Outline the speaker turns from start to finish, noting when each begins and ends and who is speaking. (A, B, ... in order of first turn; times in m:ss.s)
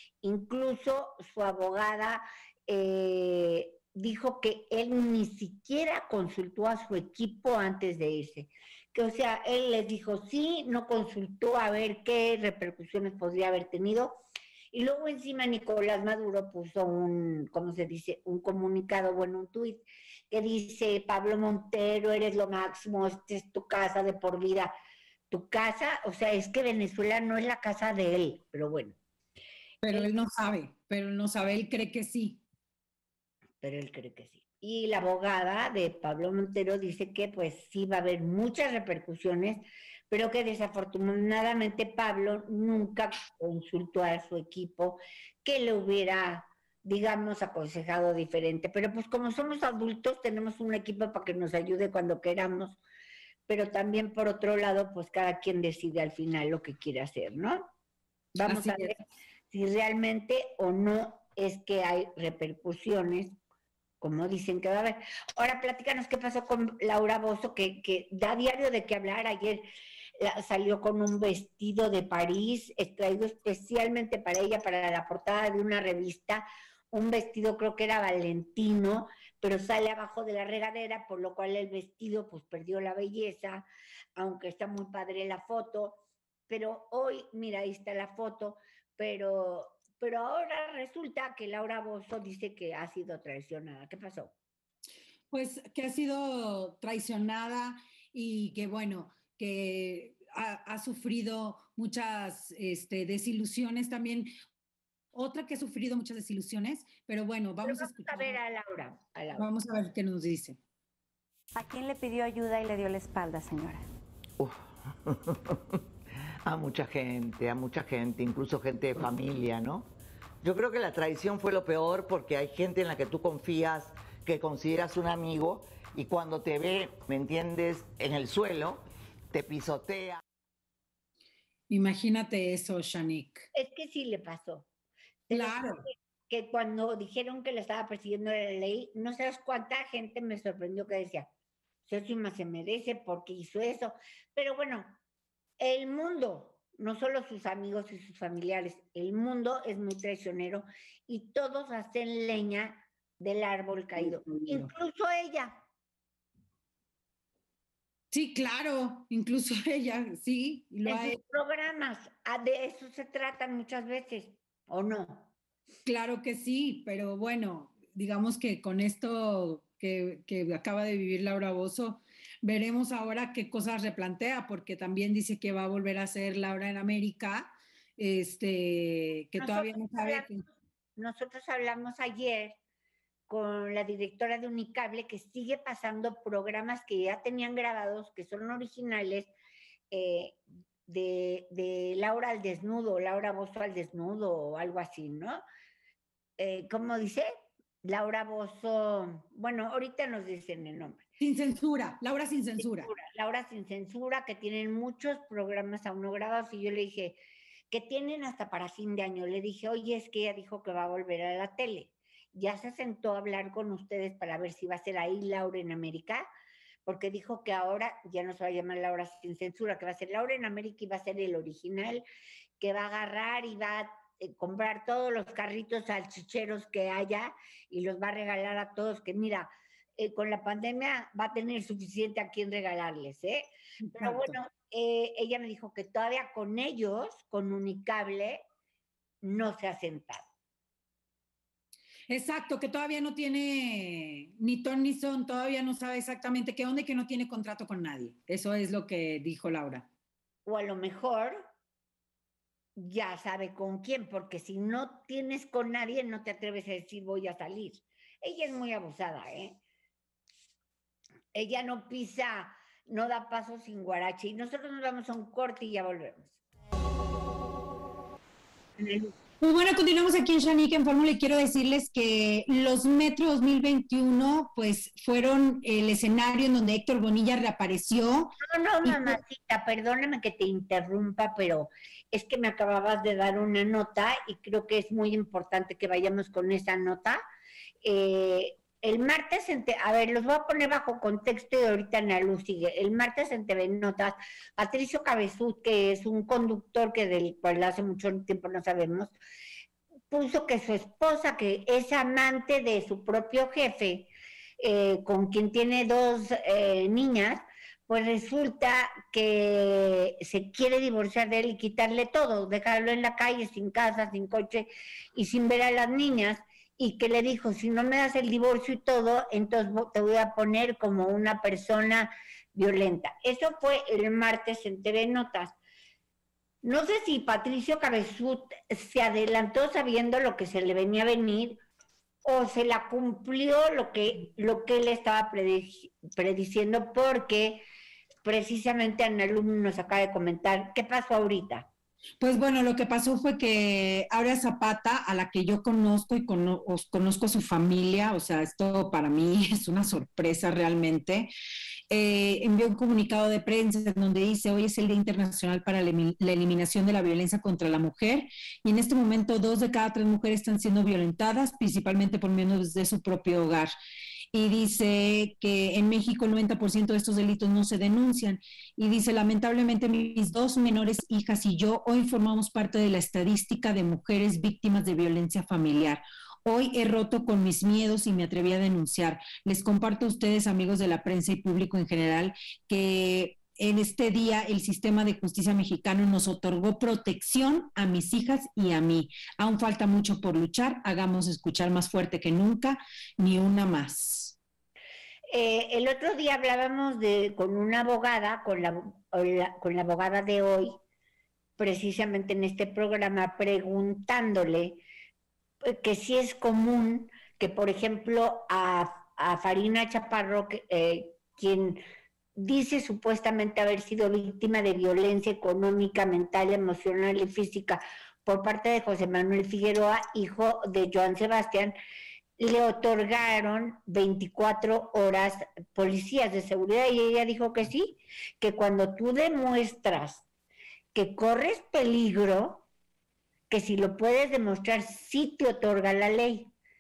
0:00.2-0:14.2 A
0:14.7-0:24.7 A
0:25.3-0:29.0 A
0:29.8-0:32.4 B
0:33.6-0:52.8 A
0:53.5-0:57.7 A
0:58.4-1:03.4 A
0:58.5-0:58.9 B
1:04.0-1:09.6 A
1:10.2-1:34.3 A
1:35.3-1:44.3 B
1:45.1-1:48.4 B
1:47.6-1:49.5 A
1:49.3-1:50.6 B
1:51.6-1:53.8 C
1:54.4-1:55.8 D
1:56.4-1:59.9 D
2:00.4-2:10.2 D
2:11.7-2:13.5 B
2:13.5-2:14.7 A
2:15.3-2:21.3 A
2:15.3-2:15.9 B
2:21.9-2:25.0 A
2:25.6-2:35.6 A
2:33.9-2:34.7 B
2:38.1-2:41.2 B
2:40.8-2:45.3 A
2:45.8-3:00.4 B
2:59.4-3:00.3 A
3:01.0-3:02.6 A
3:03.3-3:09.3 A
3:09.9-3:15.4 A
3:16.4-3:17.3 A
3:17.8-3:21.0 A
3:21.2-3:22.9 B
3:22.6-3:27.2 A
3:27.7-3:36.3 A
3:36.9-3:42.0 A
3:42.6-3:53.5 A
3:53.8-3:54.4 B
3:54.0-3:58.4 A
3:59.2-4:00.3 A
4:02.1-4:09.9 B
4:10.5-4:11.4 A
4:12.8-4:19.6 A
4:21.3-4:26.3 A
4:28.8-4:29.2 A
4:29.4-4:39.2 B
4:38.4-4:47.2 A
4:47.8-4:59.2 A
5:00.1-5:25.6 A
5:26.6-5:31.6 A
5:32.2-5:37.6 A
5:38.2-5:41.7 A
5:42.2-5:51.3 B
5:51.9-6:03.7 B
6:04.3-6:34.4 B
6:35.3-6:40.8 A
6:41.6-6:44.8 A
6:45.6-6:51.8 A
6:52.4-7:01.8 A
7:02.4-7:10.2 A
7:10.9-7:12.6 A
7:13.5-7:16.5 A